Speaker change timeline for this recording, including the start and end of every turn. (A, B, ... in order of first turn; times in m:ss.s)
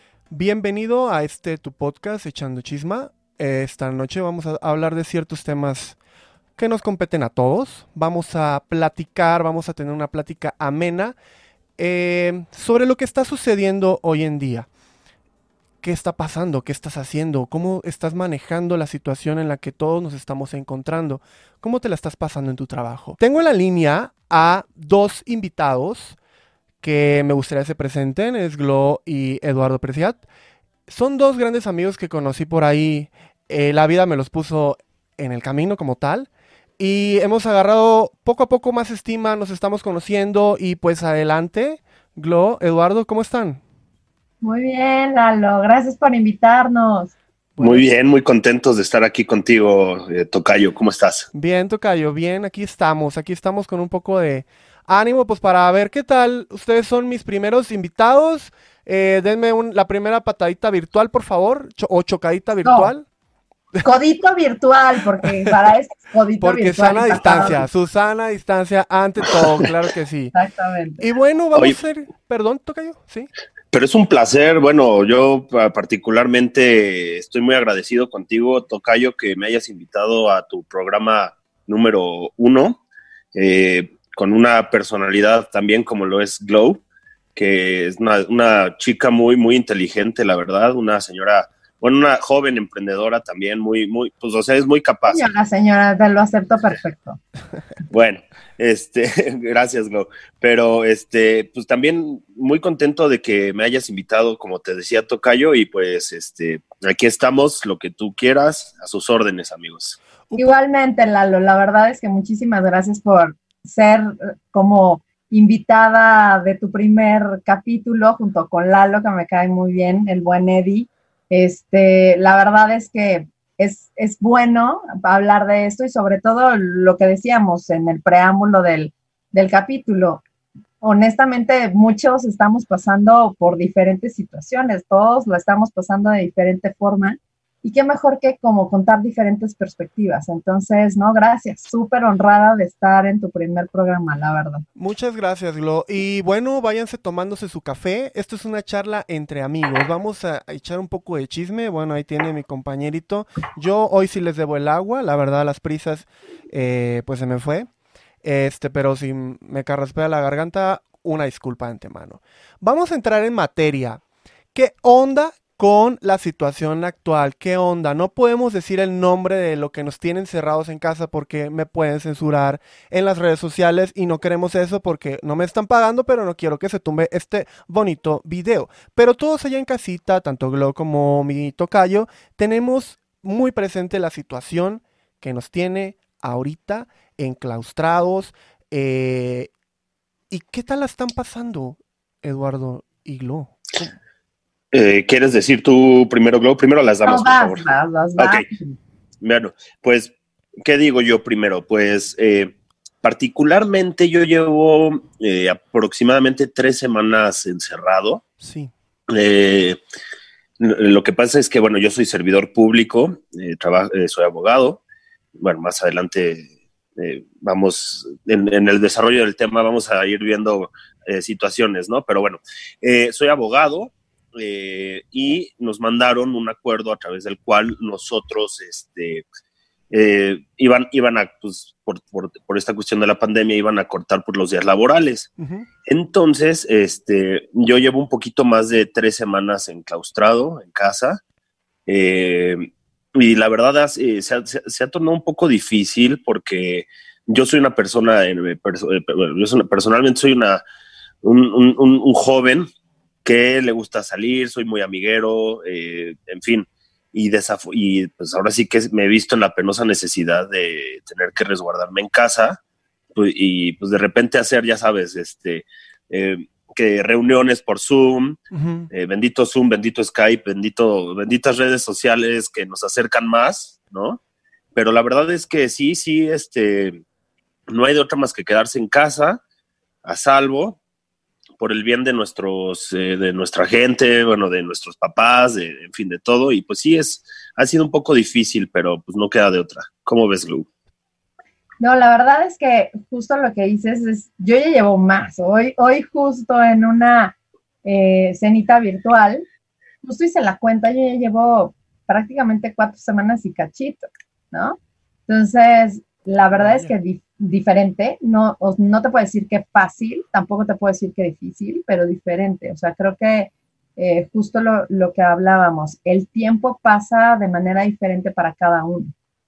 0:00.3-0:06.0 A
0:06.6-0:11.2 A
0:11.8-0:14.7 A
0:15.8-0:26.2 A
0:26.8-0:30.2 A
0:30.9-0:36.3 A
0:36.8-0:43.6 A
0:44.4-0:47.2 B
0:47.6-0:47.8 A
0:47.6-0:51.3 C
0:51.3-1:03.1 A
1:02.6-1:02.9 B
1:03.8-1:07.6 B
1:06.4-1:10.3 A
1:10.3-1:11.1 B
1:11.0-1:13.3 A
1:13.7-1:22.8 C
1:23.3-1:26.8 C
1:27.4-1:35.3 C
1:35.1-1:37.2 B
1:37.9-1:50.0 C
1:50.4-2:10.2 B
2:10.8-2:24.6 B
2:24.8-2:37.7 A
2:38.2-2:44.0 A
2:44.5-3:09.5 A
3:10.3-3:14.0 A
3:14.7-3:18.4 C
3:17.0-3:18.8 B
3:19.2-3:20.1 C
3:20.6-3:28.2 C
3:28.4-3:28.7 A
3:29.1-3:29.8 C
3:30.6-3:34.8 C
3:35.4-3:49.2 C
3:49.9-3:55.3 C
3:55.4-3:55.7 A
3:55.9-4:01.2 C
4:01.9-4:10.6 C
4:11.2-4:12.7 C
4:13.2-4:22.6 C
4:23.2-4:28.4 C
4:28.5-4:28.9 A
4:28.9-4:34.2 C
4:34.8-4:37.0 C
4:37.7-4:39.4 C
4:40.0-4:40.8 C
4:41.6-4:50.7 C
4:51.8-4:59.4 B
5:00.0-5:19.1 B
5:06.6-5:06.9 A